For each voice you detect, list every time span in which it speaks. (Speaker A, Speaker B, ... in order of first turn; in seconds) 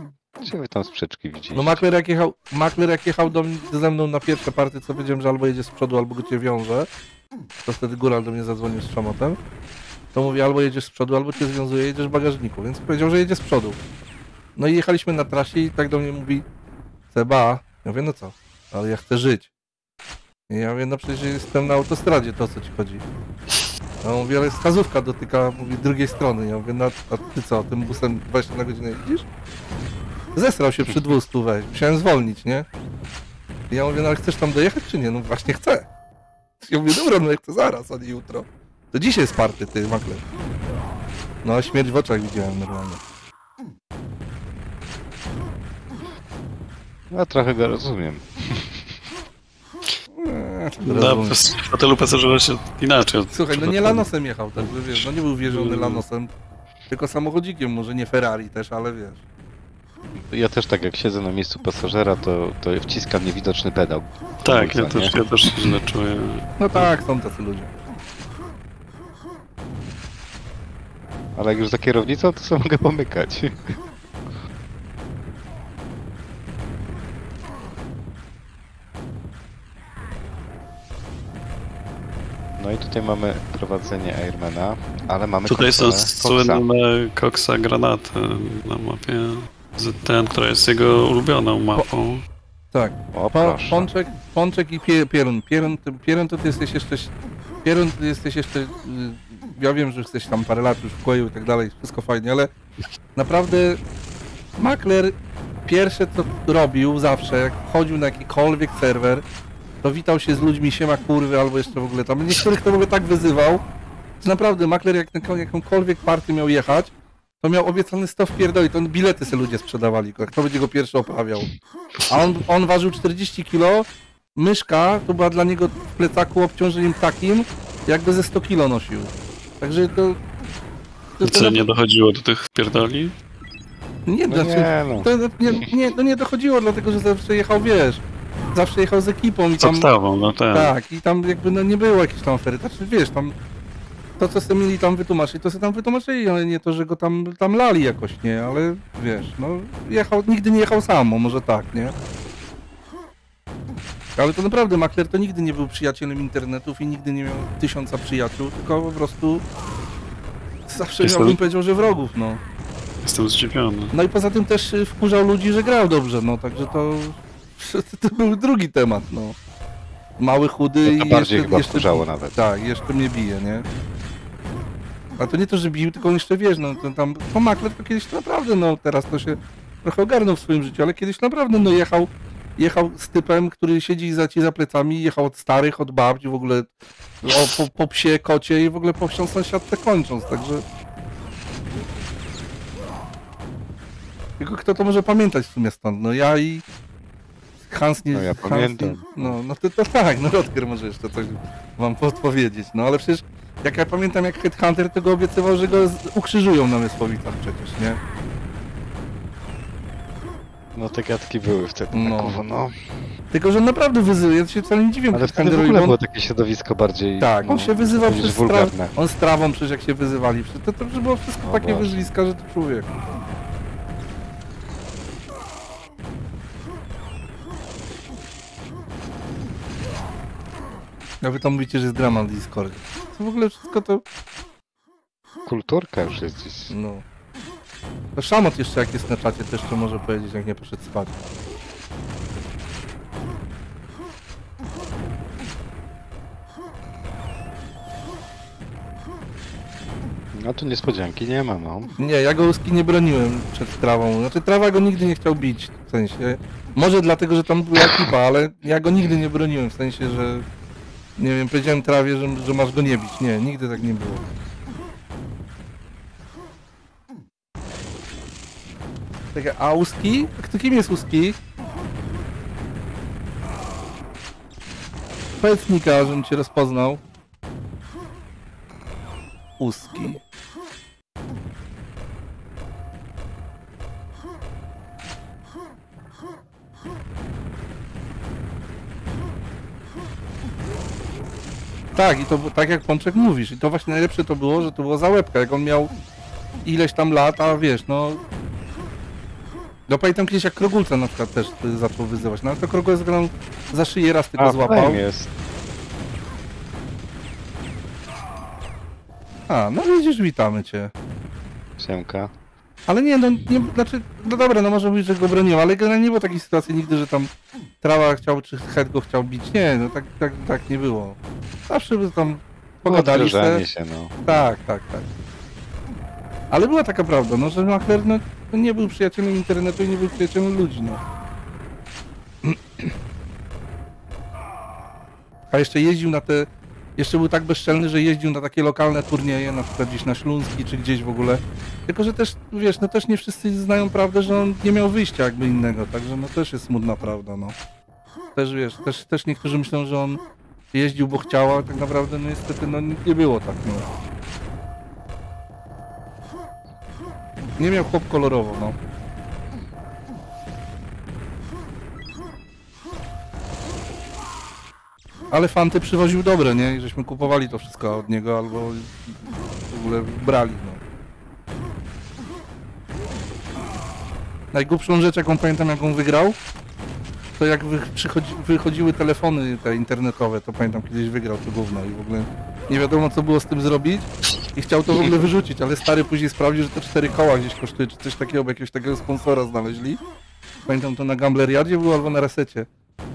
Speaker A: 0.3-1.8, 47.1-48.9, 60.3-65.2, 71.3-73.8, 82.6-86.6, 93.1-93.9, 134.3-135.7, 170.8-172.4, 198.1-199.4, 210.7-212.7, 215.1-218.9, 221.4-222.1, 235.4-236.7, 250.3-251.9, 304.4-305.3, 311.8-312.3, 322.9-324.2
Speaker B: 1.5-6.9, 7.7-9.4, 10.1-13.8, 14.6-16.4, 17.1-19.5, 20.5-23.0, 24.0-29.2, 30.4-32.6, 33.7-35.9, 36.6-40.2, 41.4-43.0, 50.1-51.4, 53.3-56.3, 56.9-59.2, 66.6-67.7, 92.7-97.1, 97.6-102.5, 103.1-103.8, 104.6-105.1, 105.7-109.2, 109.8-113.6, 114.2-121.5, 122.1-130.2, 131.2-131.6, 134.1-138.0, 138.5-139.9, 140.5-143.3, 144.2-151.9, 154.2-159.4, 160.7-162.4, 163.9-169.4, 170.2-173.7, 175.2-186.7, 187.2-190.6, 194.4-196.6, 197.7-208.0, 211.9-212.4, 213.3-215.9, 217.2-223.2, 231.2-234.0, 236.7-237.0, 238.2-241.2, 252.0-260.4, 261.2-264.2, 269.3-271.4, 275.4-277.0, 279.6-280.2, 291.9-295.9, 296.6-298.2, 299.9-305.0, 309.5-310.9, 312.9-317.3, 317.8-323.6, 324.2-325.1, 326.5-331.0, 332.4-332.9, 335.5-347.6, 348.3-350.2, 350.7-353.9, 357.6-358.8, 365.3-370.8, 374.5-376.4, 377.4-390.0, 390.6-392.7
Speaker C: 50.8-56.0, 64.4-66.9, 85.5-92.2, 131.2-133.1, 139.6-140.7, 161.0-161.4, 163.0-163.9